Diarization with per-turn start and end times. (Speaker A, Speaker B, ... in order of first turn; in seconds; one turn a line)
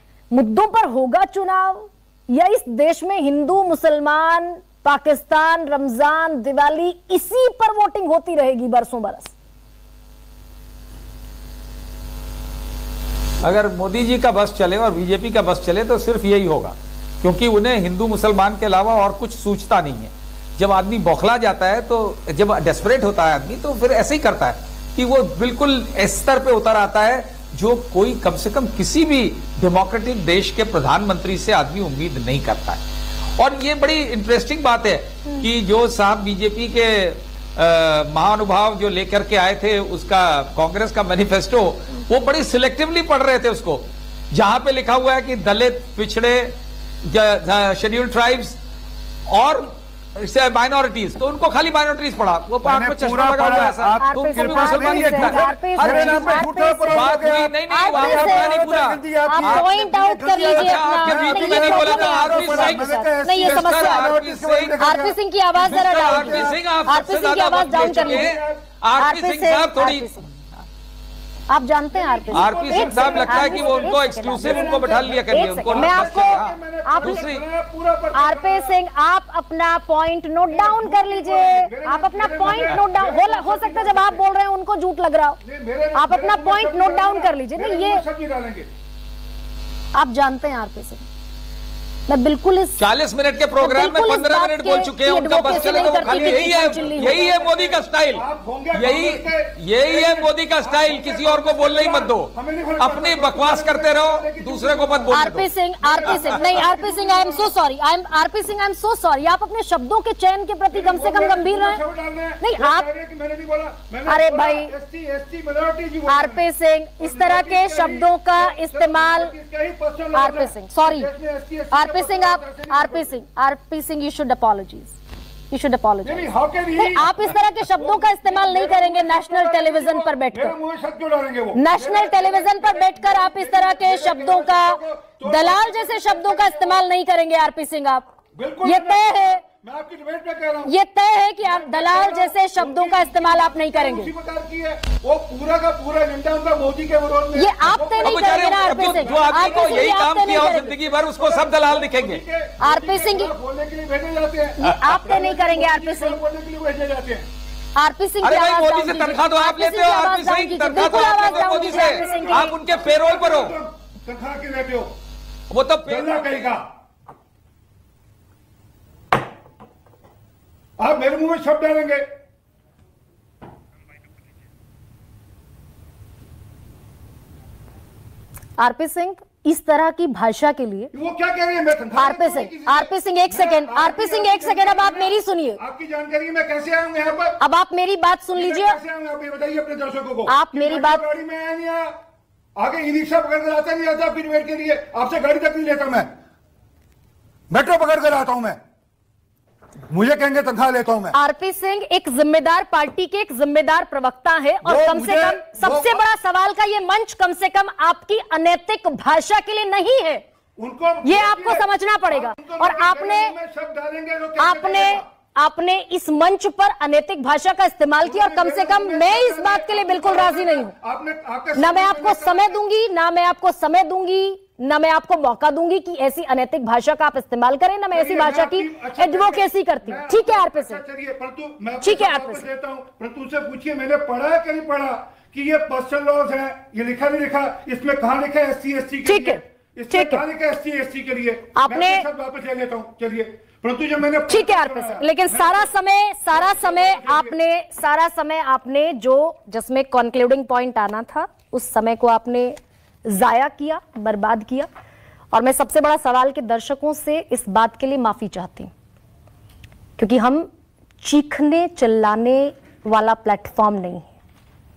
Speaker A: 0.3-9.3
Speaker B: 13.4-32.8
Speaker B: 33.4-46.5
Speaker B: 47.0-48.6
Speaker B: 49.3-59.7
Speaker C: 52.6-66.6
Speaker A: 54.0-58.6
Speaker A: 59.2-64.1
Speaker B: 60.3-64.8
Speaker A: 64.8-68.3
Speaker B: 65.6-70.1
Speaker C: 67.7-68.6
Speaker A: 69.0-70.3
Speaker A: 71.5-77.3
Speaker C: 71.9-78.8
Speaker B: 72.3-77.4
Speaker A: 78.1-85.4
Speaker C: 80.5-84.2
Speaker C: 85.4-88.7
Speaker A: 85.9-88.0
Speaker A: 89.9-91.0
Speaker A: 92.1-92.8
Speaker B: 92.8-105.5
Speaker A: 93.6-97.4
Speaker C: 95.4-107.5
Speaker A: 105.1-111.8
Speaker C: 110.7-116.4
Speaker A: 112.4-112.9
Speaker A: 114.1-114.7
Speaker A: 116.1-119.3
Speaker C: 117.0-123.1
Speaker A: 120.1-121.1
Speaker A: 121.7-125.0
Speaker A: 125.5-130.5
Speaker C: 126.0-136.8
Speaker A: 131.5-138.1
Speaker C: 138.3-140.7
Speaker A: 138.6-139.4
Speaker A: 140.7-144.1
Speaker C: 141.4-149.8
Speaker A: 147.3-150.8
Speaker B: 148.0-152.2
Speaker C: 151.1-157.3
Speaker A: 152.6-153.3
Speaker A: 154.6-156.2
Speaker A: 157.8-162.5
Speaker B: 158.2-163.5
Speaker C: 160.8-164.9
Speaker B: 165.5-166.3
Speaker C: 165.8-166.7
Speaker C: 170.8-172.0
Speaker A: 178.6-180.9
Speaker C: 180.9-187.4
Speaker A: 181.9-185.6
Speaker A: 187.4-188.8
Speaker C: 188.3-191.9
Speaker A: 190.3-191.0
Speaker C: 192.6-196.1
Speaker C: 197.5-198.6
Speaker C: 199.9-201.2
Speaker A: 201.1-210.2
Speaker C: 204.6-206.0
Speaker C: 210.6-215.0
Speaker A: 211.0-213.3
Speaker A: 214.4-220.7
Speaker C: 218.0-222.6
Speaker A: 221.6-230.8
Speaker C: 227.9-245.7
Speaker A: 231.8-232.4
Speaker A: 239.0-240.2
Speaker A: 241.5-242.1
Speaker A: 244.3-254.7
Speaker C: 246.3-247.4
Speaker A: 255.3-258.7
Speaker A: 260.0-260.5
Speaker A: 261.0-264.1